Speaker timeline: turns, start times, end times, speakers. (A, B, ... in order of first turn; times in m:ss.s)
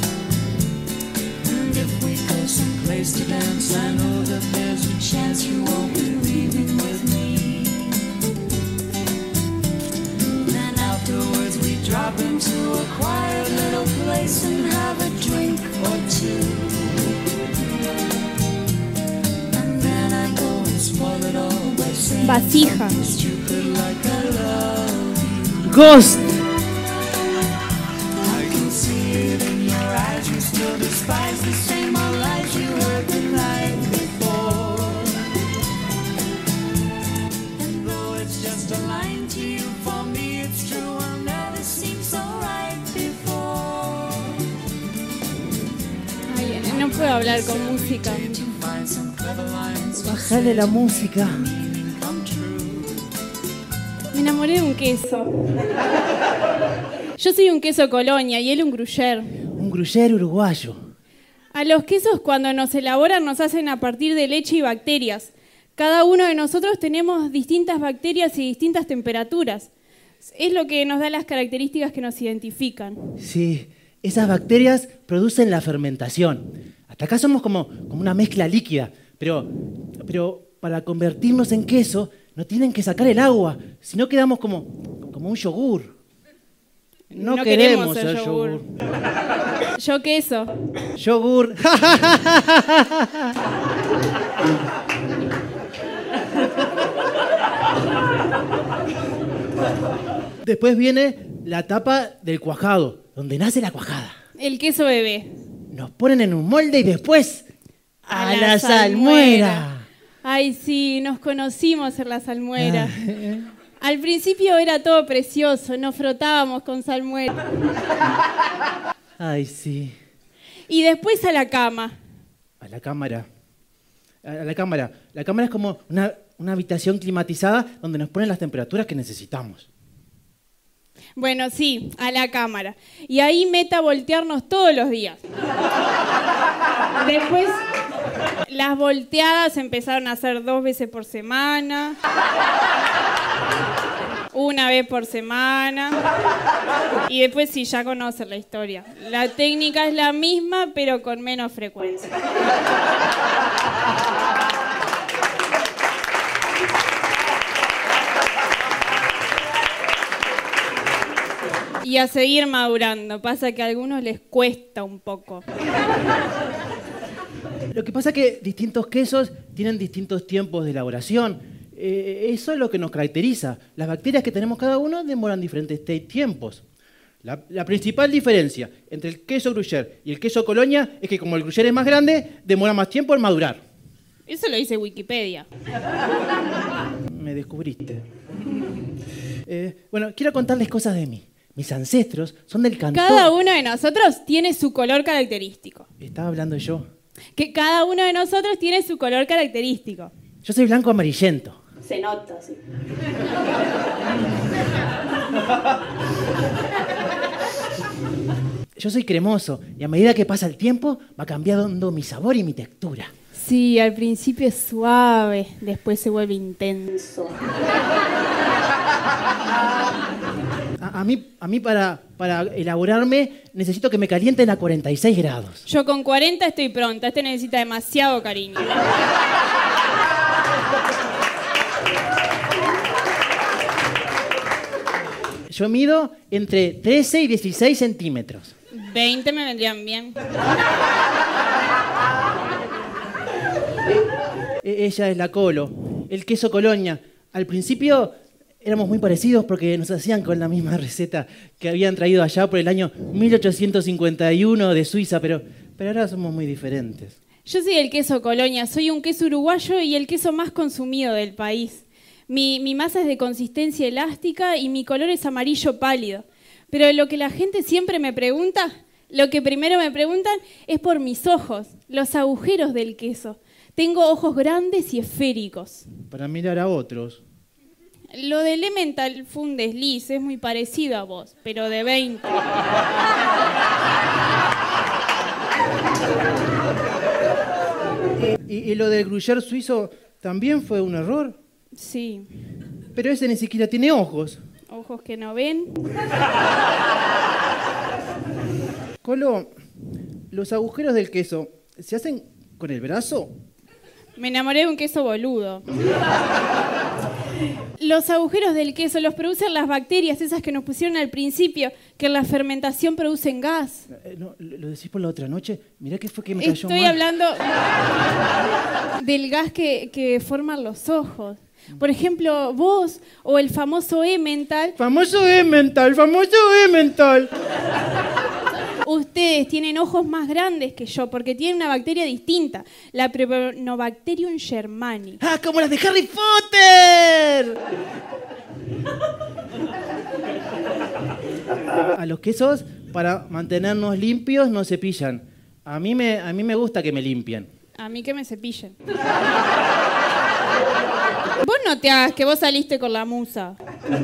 0:01.4-0:08.1 A
0:10.4-0:17.0 A
0:19.5-0:25.6 A
0:22.2-0:23.0 B
0:25.6-0:26.4 C
0:28.2-0:35.3 A
0:37.6-0:44.4 A
0:46.3-0:48.4 B
0:47.4-0:53.0 A
0:50.0-0:51.5 C
0:54.1-0:55.3 B
0:57.2-0:59.3 B
0:59.6-1:00.8 C
1:01.5-1:09.7 B
1:10.2-1:13.2 B
1:13.2-1:25.9 C
1:27.1-1:28.6 B
1:27.1-1:28.7 C
1:29.8-1:30.5 B
1:31.0-1:33.3 C
1:40.4-1:44.1 C
1:44.4-1:45.3 B
1:45.7-1:47.5 C
1:48.1-1:49.9 C
1:48.1-1:49.7 B
1:50.2-1:53.0 B
1:52.6-1:53.5 C
1:53.8-1:57.4 B
1:59.2-2:00.0 C
2:00.7-2:02.0 B
2:02.6-2:03.3 C
2:04.2-2:09.7 C
2:11.2-2:15.2 B
2:17.0-2:17.6 B
2:18.5-2:22.0 B
2:24.3-2:26.0 B
2:27.1-2:32.1 B
2:41.8-2:45.4 B
2:47.7-2:56.6 C
2:57.2-3:03.6 C
3:04.3-3:05.5 B
3:07.1-3:08.0 C
3:09.5-3:13.3 C
3:12.9-3:15.9 B
3:16.0-3:16.9 C
3:17.4-3:20.1 B
3:20.4-3:21.6 C
3:21.8-3:22.6 B
3:28.8-3:33.1 C
3:33.4-3:37.3 B
3:40.8-3:45.6 C
3:45.7-3:48.7 B
3:55.5-3:58.5 C
3:58.7-4:00.2 B
4:04.6-4:17.2 C
4:17.5-4:35.9 B
4:36.1-4:37.2 C
4:38.1-4:42.4 B
4:48.2-4:51.4 C
4:51.8-4:52.3 B
4:53.0-4:54.4 C
4:54.7-4:55.8 B
4:59.0-4:59.5 C
5:00.3-5:03.3 C
5:04.2-5:05.6 B
5:07.8-5:13.9 B
5:13.9-5:17.0 C
5:16.4-5:17.5 B
5:19.0-5:24.8 B
5:24.8-5:27.3 C
5:28.8-5:35.2 B
5:35.2-5:37.6 C
5:41.9-5:47.5 C
5:47.8-5:48.8 B
5:51.4-5:53.6 B